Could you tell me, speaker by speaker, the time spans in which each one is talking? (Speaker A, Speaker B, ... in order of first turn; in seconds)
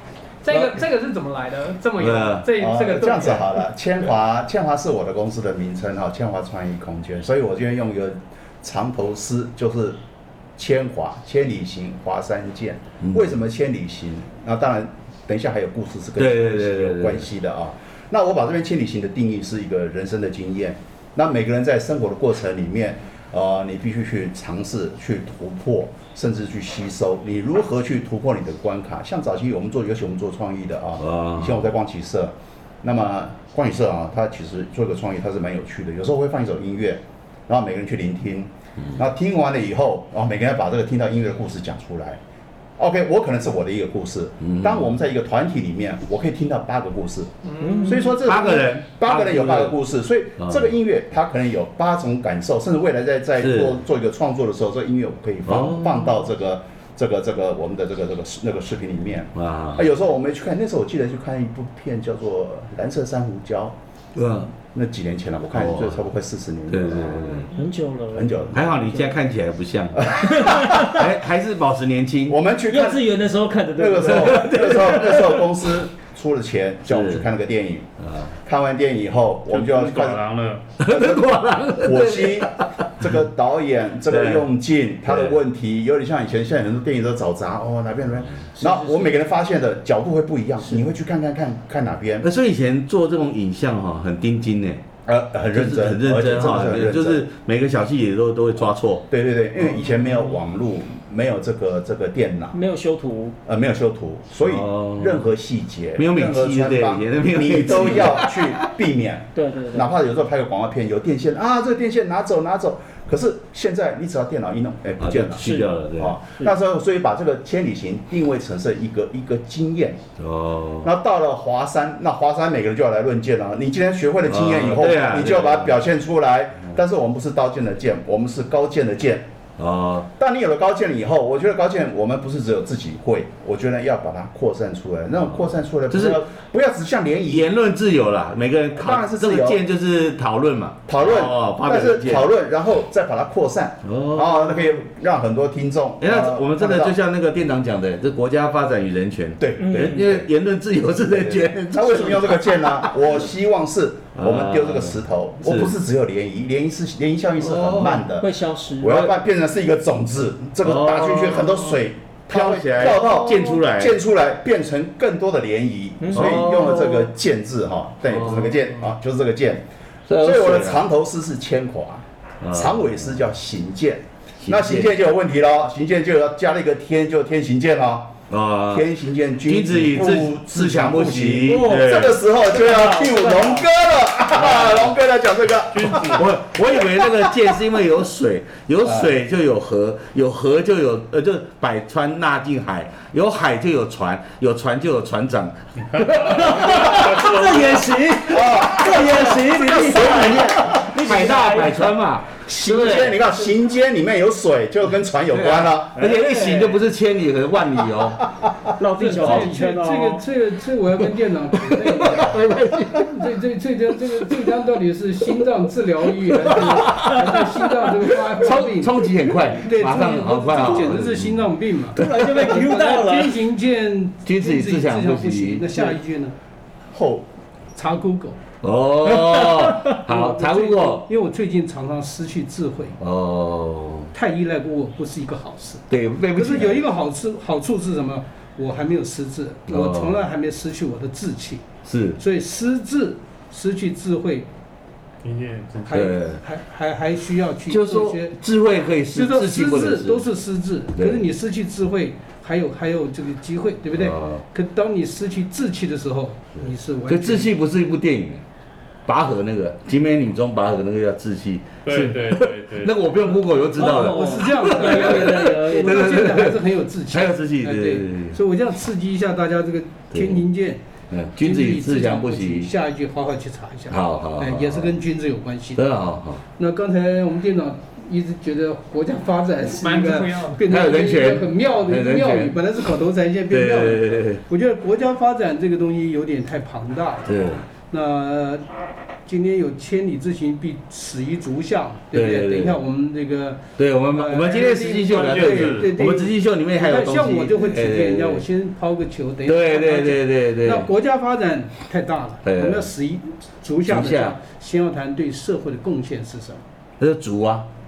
Speaker A: 0.4-3.6, 47.4-48.0, 279.8-280.6
Speaker B: 0.5-0.8, 2.0-2.5, 13.0-13.3, 16.2-17.3, 31.0-31.7, 44.4-44.9, 48.2-49.8, 50.4-50.7, 53.4-53.8, 55.4-56.2, 59.3-59.9, 64.1-64.5, 65.5-66.1, 66.7-67.5, 68.5-72.4, 74.0-75.5, 76.8-77.3, 78.0-78.3, 80.8-83.2, 84.1-84.5, 85.0-85.4, 92.2-94.8, 95.5-99.1, 104.4-105.3, 106.0-108.6, 115.0-116.2, 120.2-120.9, 124.2-125.8, 129.6-130.1, 135.9-136.2, 137.3-142.3, 143.8-144.8, 146.0-152.9, 154.2-155.8, 157.4-158.1, 160.6-164.0, 166.1-167.1, 168.1-168.6, 170.1-170.8, 172.4-173.2, 174.4-174.9, 178.3-178.9, 179.4-182.2, 184.3-184.9, 185.9-203.2, 205.3-208.2, 209.2-209.4, 211.5-213.1, 216.3-221.4, 224.2-225.9, 228.6-231.1, 233.0-234.1, 235.9-236.8, 239.7-240.2, 241.8-242.2, 245.9-246.4, 247.7-250.3, 250.9-251.2, 253.9-254.4, 256.6-258.4, 259.1-268.4, 270.1-270.4, 271.1-272.7, 273.9-274.9, 275.8-276.4, 280.7-282.6, 283.5-284.4, 287.2-287.6, 292.1-292.8, 293.8-298.4, 299.4-300.9, 302.4-302.9, 303.8-304.4, 307.0-307.7
Speaker C: 2.6-10.0, 10.6-42.2, 42.8-47.3, 47.8-63.8, 64.7-67.5, 68.1-68.7, 69.9-70.7, 72.3-73.1, 73.8-77.9, 78.4-80.2, 80.8-92.3, 95.0-97.2, 99.1-102.5, 103.5-120.0, 120.8-129.3, 130.2-137.5, 138.8-139.6, 140.9-146.9, 149.4-150.2, 151.1-158.3, 158.8-178.2, 178.7-186.3, 186.8-187.5, 188.8-189.1, 198.3-200.2, 202.5-206.0, 208.2-208.6, 226.9-227.3
Speaker D: 47.6-48.1, 67.5-69.1, 70.2-71.0, 72.7-74.5, 88.6-89.1, 102.5-103.3, 109.3-109.9, 115.3-115.8, 149.6-150.1, 158.2-159.1, 166.0-166.4, 181.4-181.9, 182.4-183.7, 196.2-201.9, 202.7-203.2, 206.2-206.7, 208.8-210.2, 221.9-223.4, 263.8-266.1
Speaker E: 79.5-80.6, 185.7-186.2, 195.9-197.8, 245.2-245.9, 261.9-263.2, 295.1-295.9
Speaker F: 208.9-219.1, 219.6-226.3, 227.7-228.4, 229.9-232.9, 234.1-235.8, 236.3-241.6, 242.2-244.5, 245.8-248.3, 249.1-257.5, 263.8-270.8, 271.4-275.8, 276.6-288.6, 289.2-306.6